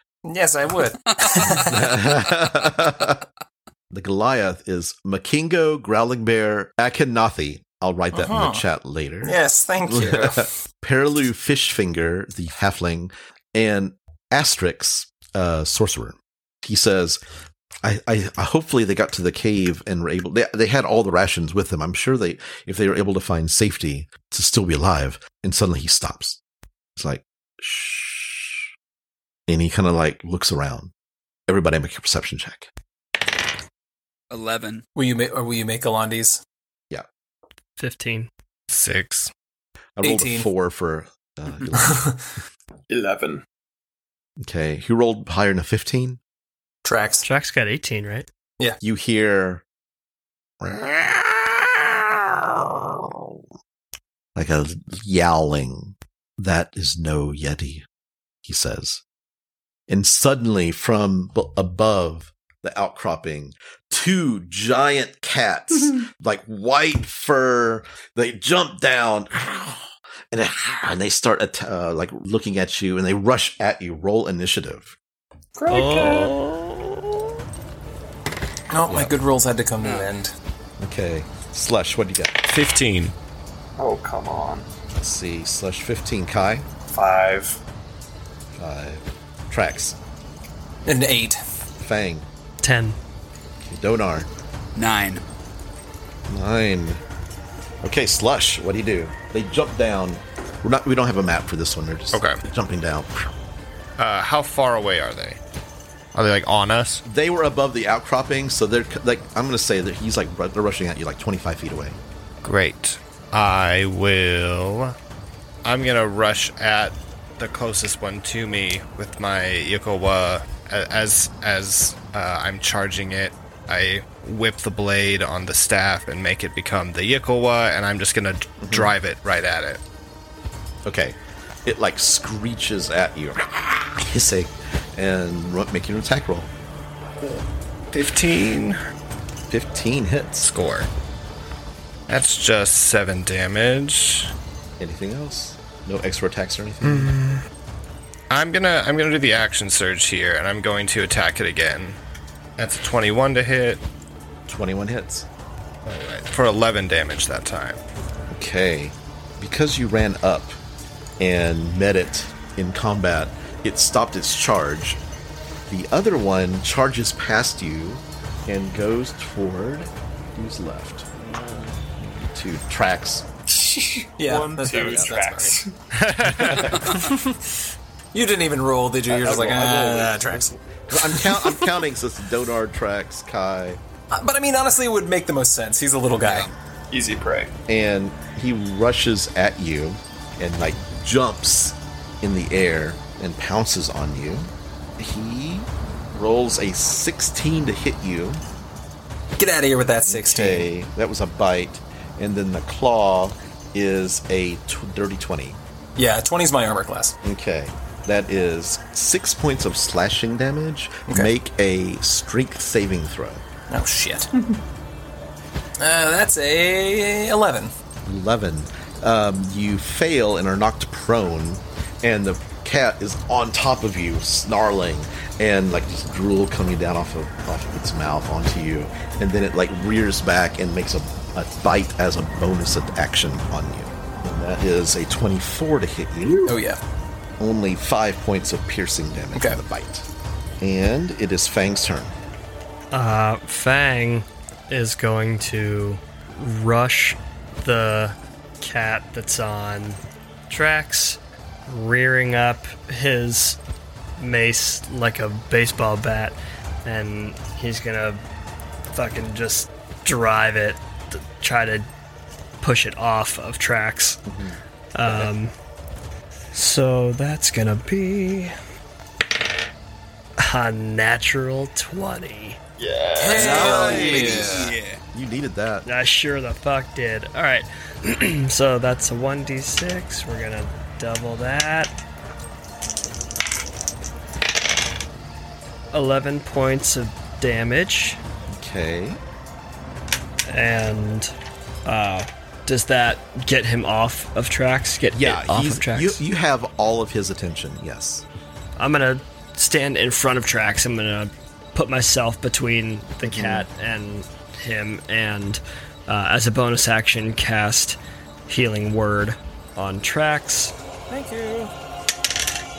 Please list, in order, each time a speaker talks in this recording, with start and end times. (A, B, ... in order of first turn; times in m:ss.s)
0:00.2-0:01.9 A
0:01.6-0:03.2 B
0:03.9-0:17.2 B
0:08.1-0:08.6 A
0:09.2-0:10.5 A
0:17.8-0:26.4 B
0:27.0-0:28.7 B
0:29.5-0:30.9 B
0:31.5-0:32.7 B
0:34.3-0:34.8 C
0:35.0-0:36.4 A
0:37.8-0:38.3 D
0:38.7-0:39.3 E
0:40.0-0:42.1 B
0:40.0-0:40.5 A
0:41.9-0:42.2 A
0:42.9-0:43.4 F
0:44.4-0:46.2 B
0:46.8-0:47.3 A
0:47.2-0:48.3 D
0:48.8-0:49.6 B
0:50.6-0:53.4 B
0:54.4-0:57.9 B
0:58.4-0:59.0 B
0:59.9-1:15.0 B
1:15.6-1:16.3 F
1:15.7-1:16.7 E
1:15.7-1:16.2 D
1:18.7-1:20.3 A
1:18.9-1:19.1 B
1:19.8-1:20.1 C
1:20.8-1:22.5 B
1:22.4-1:23.1 E
1:23.8-1:24.7 F
1:25.0-1:26.7 B
1:26.9-1:27.6 F
1:28.6-1:30.0 B
1:30.9-1:31.4 A
1:31.8-1:32.3 B
1:32.6-1:33.0 D
1:33.6-1:34.3 B
1:34.8-1:35.2 C
1:36.3-1:37.0 B
1:37.8-1:43.3 B
1:42.1-1:42.4 E
1:44.0-1:45.4 E
1:46.1-1:47.0 E
1:47.1-1:52.0 B
1:52.4-1:55.0 E
1:55.6-2:09.8 E
2:08.6-2:09.0 B
2:10.8-2:16.5 B
2:17.2-2:18.8 E
2:19.5-2:20.5 B
2:20.4-2:20.9 E
2:22.1-2:24.3 E
2:24.8-2:27.2 B
2:26.8-2:27.4 E
2:28.3-2:32.0 E
2:32.6-2:33.8 E
2:34.5-2:35.3 B
2:35.9-2:37.8 E
2:38.3-2:40.6 B
2:41.2-2:45.0 B
2:45.7-2:51.1 B
2:52.0-2:53.3 B
2:53.5-2:55.8 F
2:54.2-2:55.6 A
2:54.7-2:55.2 B
2:56.0-2:56.7 E
2:56.4-2:56.9 B
2:56.8-2:57.5 A
2:58.1-3:01.6 A
2:59.1-3:03.8 B
3:04.1-3:06.5 A
3:06.2-3:06.5 C
3:06.9-3:07.5 F
3:07.7-3:18.4 B
3:19.4-3:20.7 A
3:20.0-3:25.6 B
3:26.0-3:27.2 A
3:27.2-3:33.4 B
3:33.7-3:34.3 A
3:35.8-3:37.7 A
3:38.0-3:56.6 B
3:56.4-3:56.8 A
3:57.4-4:00.1 B
4:00.6-4:02.2 B
4:02.9-4:13.6 D
4:14.2-4:18.2 D
4:18.9-4:21.9 D
4:22.6-4:24.2 D
4:24.3-4:25.3 B
4:25.0-4:25.5 D
4:26.5-4:28.5 D
4:30.4-4:32.6 D
4:32.8-4:34.6 F
4:33.2-4:34.7 A
4:33.3-4:35.0 C
4:35.1-4:35.9 B
4:35.9-4:41.9 D
4:45.9-4:48.2 D
4:48.5-4:49.2 B
4:50.5-4:51.3 D
4:51.8-4:56.2 D
4:55.2-4:58.2 B
4:58.8-5:10.7 D
5:03.2-5:03.7 B
5:11.1-5:11.7 A